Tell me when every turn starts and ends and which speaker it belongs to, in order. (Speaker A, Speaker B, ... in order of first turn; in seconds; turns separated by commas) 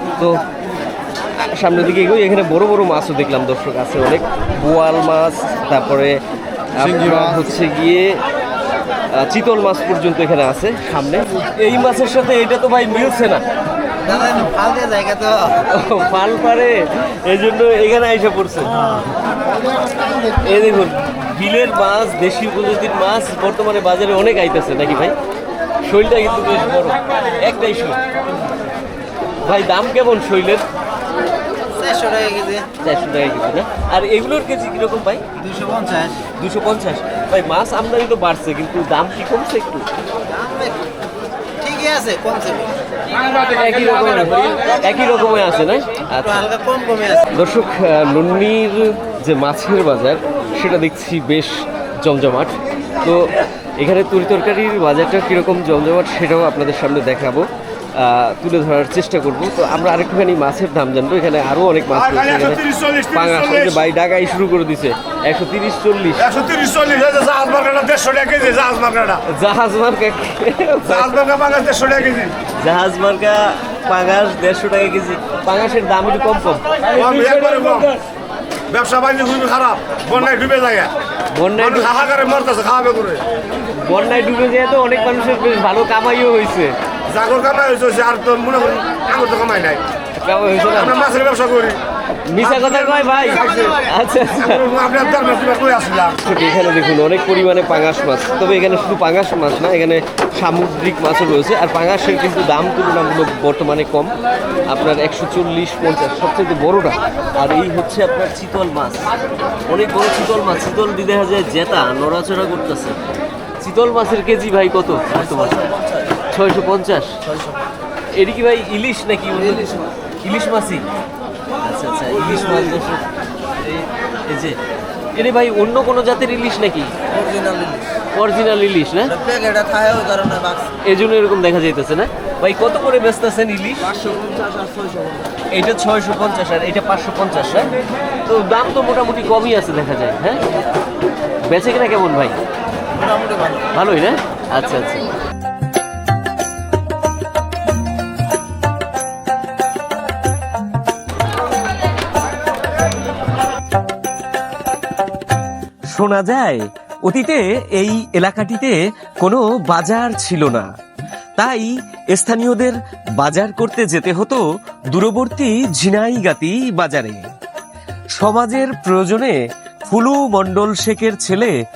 Speaker A: 0.2-0.4, Speaker A: 1.4-6.2, Speaker A: 6.8-8.2, Speaker A: 9.2-13.4, Speaker B: 14.0-15.5, Speaker A: 15.7-18.9, Speaker A: 20.4-25.2, Speaker A: 25.9-28.0, Speaker A: 29.4-30.6, Speaker B: 31.7-32.7, Speaker A: 32.8-35.2, Speaker B: 35.4-36.3, Speaker A: 36.4-39.9, Speaker B: 40.3-40.9, Speaker B: 41.6-42.8, Speaker A: 43.5-46.5, Speaker B: 44.6-45.4, Speaker B: 46.1-47.3, Speaker A: 47.3-62.6, Speaker C: 61.9-63.8, Speaker A: 63.1-66.2, Speaker C: 66.2-69.2, Speaker A: 69.3-71.2, Speaker C: 70.9-72.3, Speaker A: 72.6-77.9, Speaker C: 76.9-77.9, Speaker C: 78.7-80.9, Speaker A: 81.4-81.9, Speaker C: 81.6-83.2, Speaker A: 83.8-86.7, Speaker C: 87.1-89.8, Speaker A: 90.2-91.0, Speaker C: 90.7-91.8, Speaker A: 92.3-94.7, Speaker C: 92.5-93.9, Speaker C: 94.4-96.2, Speaker A: 96.2-104.1, Speaker A: 104.7-109.0, Speaker A: 109.7-113.0, Speaker A: 113.6-115.7, Speaker A: 116.3-117.2, Speaker A: 118.2-120.8, Speaker A: 121.6-123.0, Speaker A: 123.6-124.6, Speaker A: 125.2-126.9, Speaker B: 127.1-127.9, Speaker A: 128.1-129.1, Speaker B: 129.1-130.7, Speaker A: 130.9-134.0, Speaker B: 134.1-134.8, Speaker A: 135.5-137.7, Speaker A: 138.3-140.4, Speaker A: 141.5-142.4, Speaker B: 143.0-143.6, Speaker A: 143.7-145.1, Speaker A: 155.9-160.7, Speaker A: 161.4-167.3, Speaker A: 168.2-171.6